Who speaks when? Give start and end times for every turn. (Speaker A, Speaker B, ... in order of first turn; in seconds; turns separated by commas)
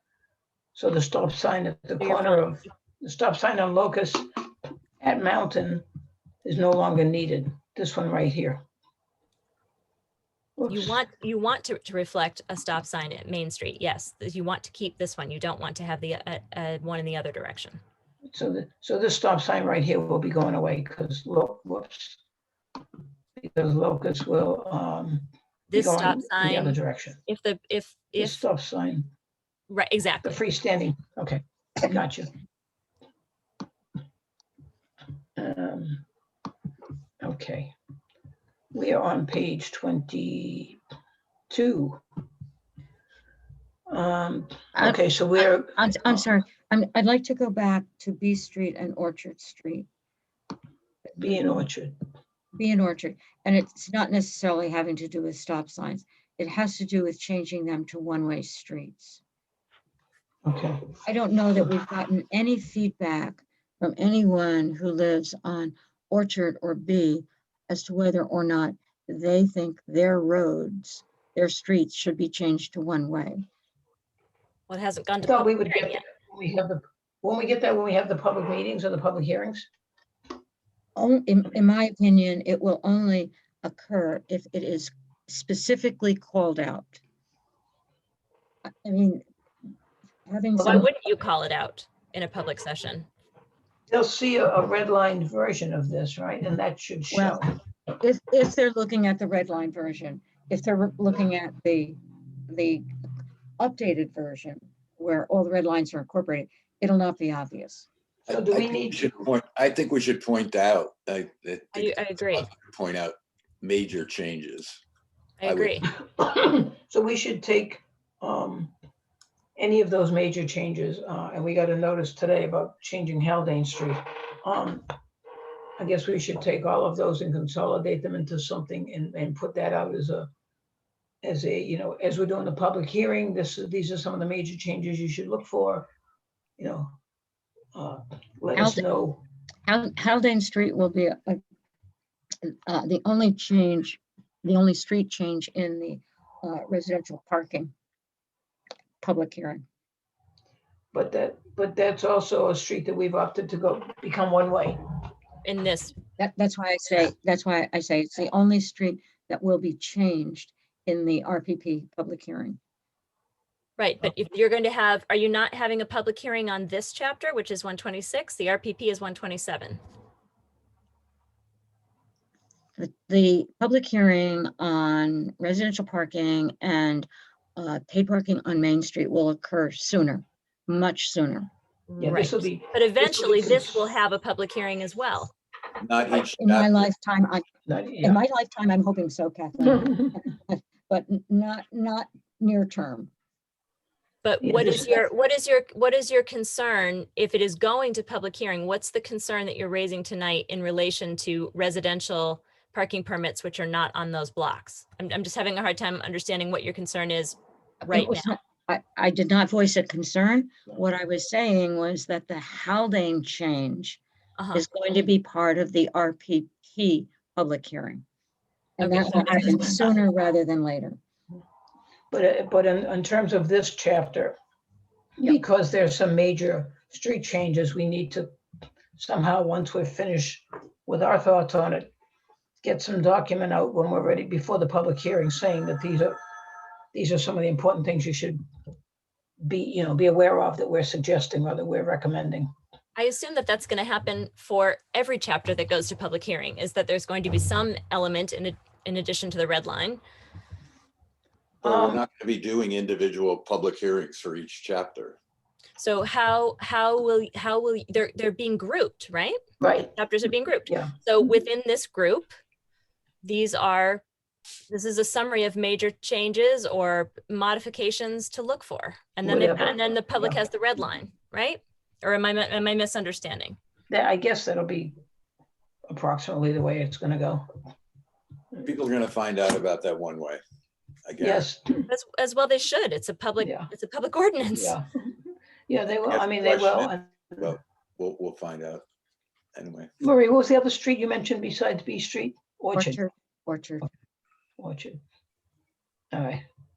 Speaker A: 0.7-4.3, Speaker B: 2.0-2.5, Speaker A: 5.0-5.8, Speaker A: 6.4-8.6, Speaker A: 10.6-11.0, Speaker B: 10.7-17.8, Speaker A: 18.3-22.2, Speaker A: 23.4-27.2, Speaker B: 25.7-28.4, Speaker A: 28.2-29.1, Speaker B: 29.7-30.4, Speaker A: 30.2-32.3, Speaker A: 35.4-36.0, Speaker A: 37.2-37.7, Speaker A: 38.7-40.8, Speaker A: 41.5-42.0, Speaker A: 43.9-46.2, Speaker C: 44.8-49.9, Speaker A: 51.2-52.0, Speaker C: 52.5-59.2, Speaker A: 60.4-61.0, Speaker C: 61.0-73.4, Speaker B: 74.7-76.0, Speaker A: 75.2-79.7, Speaker C: 81.0-87.0, Speaker C: 88.8-89.2, Speaker C: 90.3-90.9, Speaker B: 90.6-93.1, Speaker A: 93.9-97.5, Speaker C: 97.1-102.8, Speaker C: 103.6-107.9, Speaker A: 108.3-109.0, Speaker D: 108.3-114.8, Speaker B: 111.7-112.5, Speaker B: 115.4-115.9, Speaker D: 115.4-115.8, Speaker A: 116.0-118.7, Speaker A: 119.6-124.9, Speaker A: 125.8-130.3, Speaker A: 131.2-135.9, Speaker A: 136.6-137.0, Speaker A: 137.7-139.2, Speaker C: 138.6-138.8, Speaker C: 139.7-141.4, Speaker C: 142.4-147.7, Speaker C: 149.0-149.6, Speaker A: 150.9-154.8, Speaker B: 155.4-155.9, Speaker C: 156.2-162.6, Speaker B: 163.8-169.8, Speaker C: 172.8-181.5, Speaker B: 181.9-185.3, Speaker A: 182.0-183.8, Speaker D: 185.8-186.9, Speaker C: 186.2-187.4, Speaker A: 187.7-188.2, Speaker C: 188.0-193.1, Speaker B: 194.2-208.3, Speaker A: 194.4-195.0, Speaker C: 207.9-214.0, Speaker B: 214.4-214.6, Speaker C: 214.5-218.0, Speaker C: 218.8-221.0, Speaker B: 218.8-219.8, Speaker A: 219.2-219.9, Speaker A: 222.1-224.4, Speaker A: 225.2-228.3, Speaker A: 228.9-231.9, Speaker A: 232.6-236.2, Speaker A: 236.9-238.4, Speaker A: 239.4-242.5, Speaker B: 242.9-250.0, Speaker D: 251.6-255.2, Speaker A: 251.6-252.0, Speaker B: 255.8-262.3, Speaker A: 259.6-259.9, Speaker A: 260.7-260.9, Speaker B: 263.2-264.0, Speaker B: 264.7-273.6, Speaker A: 269.2-270.4, Speaker A: 273.9-274.9, Speaker A: 275.9-277.4, Speaker D: 278.6-280.4, Speaker D: 281.0-281.5, Speaker A: 281.2-281.9, Speaker B: 281.9-284.8, Speaker A: 283.4-283.7, Speaker A: 284.5-285.1, Speaker A: 285.7-287.5, Speaker D: 286.1-288.8, Speaker D: 289.5-289.9, Speaker A: 290.0-293.0, Speaker C: 292.7-293.9, Speaker A: 294.6-295.0, Speaker A: 296.1-296.4